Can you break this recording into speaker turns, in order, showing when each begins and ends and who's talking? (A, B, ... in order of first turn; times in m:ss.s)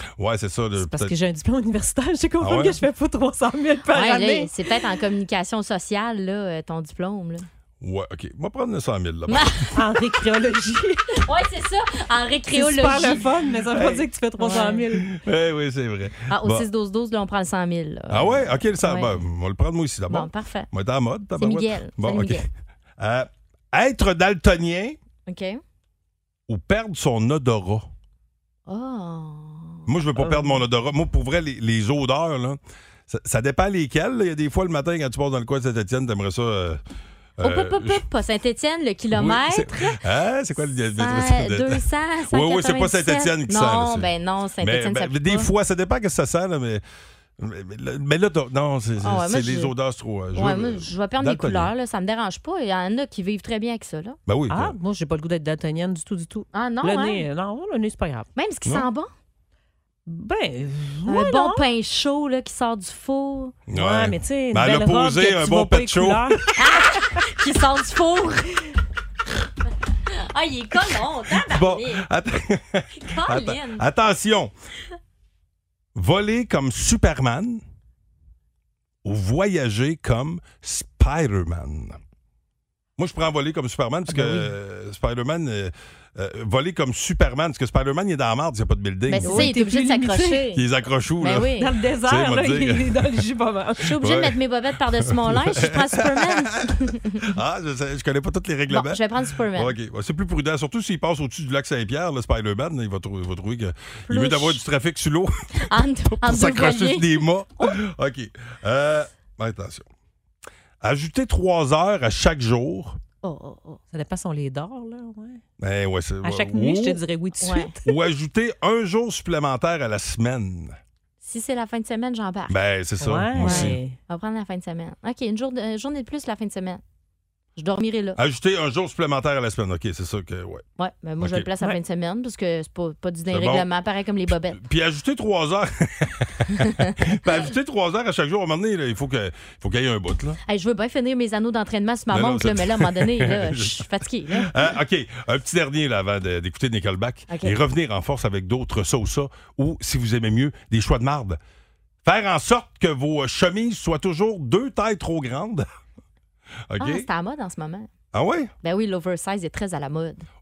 0:00.2-0:01.2 A
0:00.8-0:04.5 B
0:02.4-0:02.8 A
0:03.9-0:07.4 C
0:07.8-0:09.6 A
0:09.3-0:09.7 C
0:09.8-0:11.2 B
0:11.2-0:13.3 C
0:12.5-0:15.1 B
0:13.7-0:14.0 A
0:14.4-0:14.8 C
0:15.0-0:16.7 A
0:16.3-0:19.2 C
0:18.1-0:22.5 A
0:20.1-0:20.7 C
0:21.4-0:22.5 C
0:23.0-0:25.0 A
0:25.3-0:25.6 C
0:26.5-0:27.9 A
0:28.7-0:30.3 C
0:29.9-0:36.8 A
0:37.4-0:38.0 A
0:37.4-0:40.0 C
0:39.1-0:44.1 A
0:40.9-0:45.5 C
0:44.6-0:46.8 A
0:47.4-0:51.7 A
0:49.0-0:49.7 C
0:50.3-0:54.2 C
0:54.3-0:54.8 A
0:54.5-0:58.3 B
0:56.5-0:57.2 C
0:58.4-0:59.1 C
1:00.1-1:01.6 B
1:01.1-1:03.6 C
1:03.7-1:06.4 A
1:03.8-1:06.5 B
1:06.6-1:08.6 C
1:10.1-1:12.0 C
1:11.3-1:14.5 A
1:13.0-1:13.8 C
1:16.0-1:17.6 A
1:19.0-1:22.0 A
1:23.0-1:29.5 A
1:24.1-1:24.5 B
1:29.1-1:30.6 C
1:29.2-1:30.5 B
1:30.5-1:33.2 A
1:31.2-1:31.7 C
1:31.6-1:33.9 B
1:33.8-1:37.2 C
1:34.0-1:34.4 A
1:34.9-1:36.7 A
1:37.2-1:45.3 A
1:38.7-1:39.7 C
1:44.1-1:44.6 C
1:45.6-1:47.8 C
1:46.2-1:49.9 A
1:50.8-1:53.0 A
1:53.2-1:53.8 C
1:53.9-1:55.4 B
1:55.6-1:57.0 A
1:56.2-1:57.9 B
1:57.4-1:57.7 C
1:57.8-2:00.8 A
2:01.2-2:02.6 C
2:02.5-2:03.8 A
2:03.0-2:04.0 B
2:03.4-2:06.8 C
2:07.6-2:08.2 C
2:08.2-2:10.6 A
2:10.8-2:14.6 C
2:11.2-2:11.5 A
2:13.3-2:13.7 A
2:14.5-2:20.4 A
2:16.5-2:17.0 C
2:20.5-2:24.6 C
2:22.1-2:31.4 A
2:27.3-2:27.6 C
2:32.0-2:35.7 A
2:36.7-2:37.1 A
2:36.8-2:37.9 C
2:38.1-2:38.5 A
2:38.6-2:40.2 C